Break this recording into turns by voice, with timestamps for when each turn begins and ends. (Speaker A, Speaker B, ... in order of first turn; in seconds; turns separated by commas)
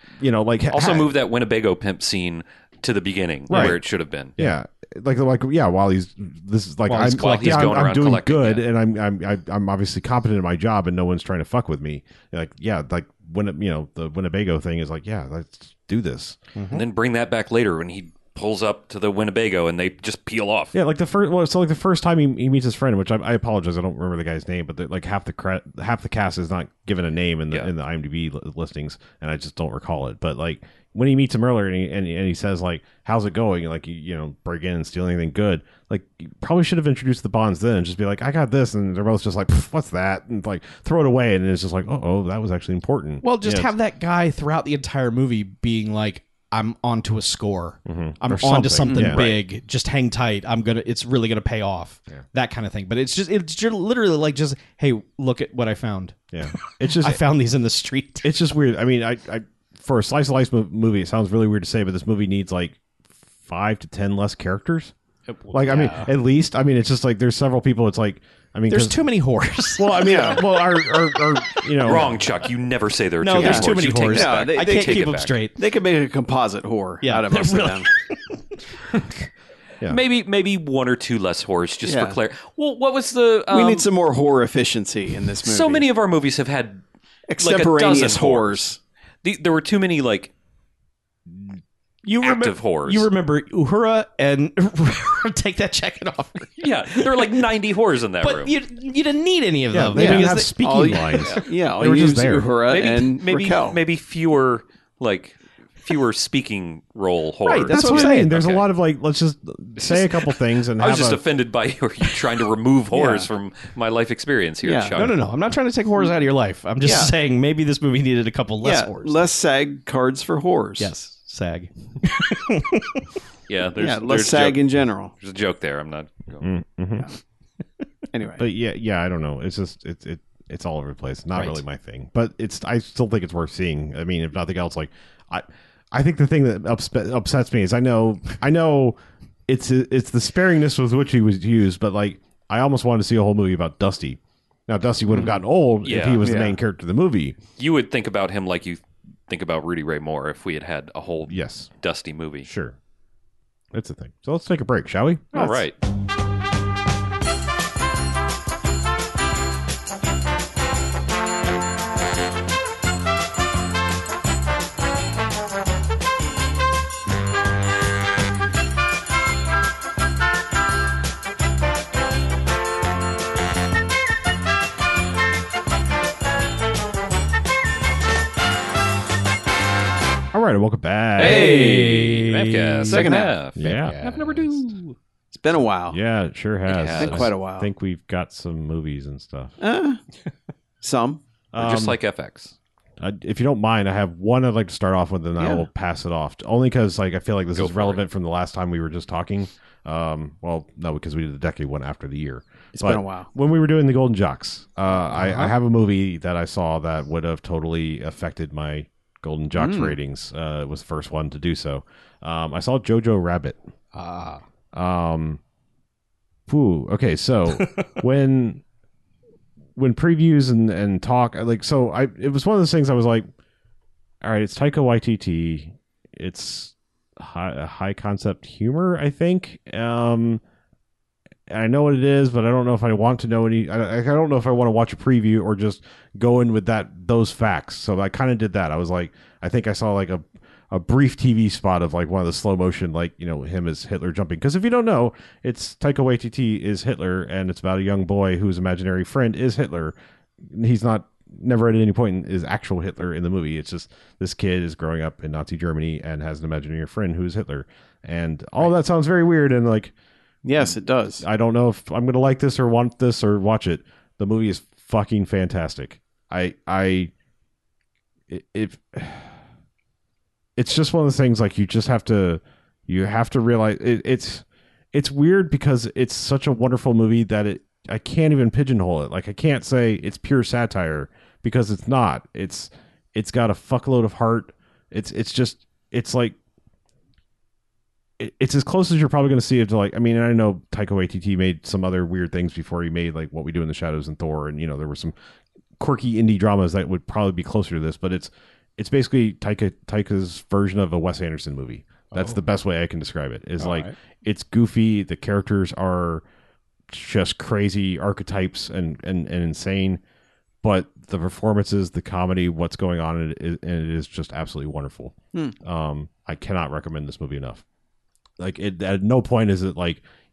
Speaker A: 0.2-1.1, Speaker B: 0.7-4.3, Speaker C: 3.5-3.8, Speaker A: 3.5-3.8, Speaker A: 4.4-16.4, Speaker C: 6.9-7.7, Speaker B: 7.0-8.7, Speaker C: 16.5-16.8, Speaker B: 16.7-20.7, Speaker A: 20.7-43.7, Speaker C: 43.2-58.3, Speaker A: 47.9-49.3, Speaker D: 48.9-49.2, Speaker A: 56.3-57.2, Speaker A: 58.2-62.8, Speaker A: 63.4-64.9, Speaker C: 65.3-66.1, Speaker A: 65.5-69.0, Speaker C: 68.7-71.0, Speaker A: 69.8-72.2, Speaker D: 70.0-70.4, Speaker B: 71.8-75.4, Speaker C: 73.2-75.5, Speaker D: 73.4-75.0, Speaker D: 75.5-77.9, Speaker C: 77.0-78.4, Speaker B: 79.8-83.9, Speaker D: 81.8-82.2, Speaker D: 83.5-85.8, Speaker B: 85.4-86.8, Speaker D: 87.3-88.8, Speaker B: 87.4-88.7, Speaker B: 89.2-90.3, Speaker B: 91.3-91.6, Speaker C: 92.0-97.5, Speaker B: 92.2-93.1, Speaker B: 96.6-98.5, Speaker C: 98.2-100.9, Speaker A: 99.7-102.5, Speaker D: 99.9-103.8, Speaker B: 101.2-101.5, Speaker B: 102.7-108.7, Speaker C: 107.4-108.3, Speaker A: 107.7-111.2, Speaker B: 109.8-115.2, Speaker D: 112.9-113.3, Speaker D: 114.6-115.0, Speaker C: 114.9-119.2, Speaker D: 116.8-117.1, Speaker D: 118.6-120.9, Speaker C: 120.8-123.1, Speaker B: 123.5-126.5, Speaker D: 123.8-125.1, Speaker A: 126.4-127.1, Speaker D: 128.1-128.4, Speaker A: 128.4-147.4, Speaker C: 131.3-131.6, Speaker B: 145.8-146.3, Speaker D: 146.2-146.5, Speaker B: 147.6-152.5, Speaker A: 151.3-151.7, Speaker A: 152.4-152.8, Speaker A: 153.7-155.3, Speaker B: 155.3-155.8, Speaker D: 155.3-155.6, Speaker A: 180.3-181.7, Speaker B: 181.2-184.9, Speaker D: 181.2-182.0, Speaker C: 181.2-183.0, Speaker D: 182.9-183.3, Speaker A: 183.6-184.0, Speaker C: 183.6-184.6, Speaker D: 185.3-186.0, Speaker A: 185.9-189.5, Speaker B: 186.7-187.3, Speaker D: 186.9-187.7, Speaker D: 189.6-190.0, Speaker D: 190.8-191.2, Speaker A: 191.5-191.9, Speaker B: 191.6-192.5, Speaker A: 193.0-213.6, Speaker D: 195.3-195.7, Speaker B: 197.6-198.0, Speaker D: 202.7-203.3, Speaker C: 205.1-205.5, Speaker D: 209.5-210.0, Speaker C: 213.9-214.4, Speaker A: 214.7-215.4, Speaker A: 216.5-218.6, Speaker C: 217.6-217.9, Speaker A: 219.8-223.3, Speaker A: 224.2-230.4, Speaker A: 231.5-259.9, Speaker D: 260.4-261.2, Speaker A: 260.6-267.1, Speaker A: 268.3-269.4, Speaker A: 270.6-286.4, Speaker A: 288.2-295.1, Speaker A: 295.8-306.2, Speaker C: 303.6-303.9, Speaker A: 306.9-310.0, Speaker A: 310.6-317.6, Speaker A: 318.4-320.0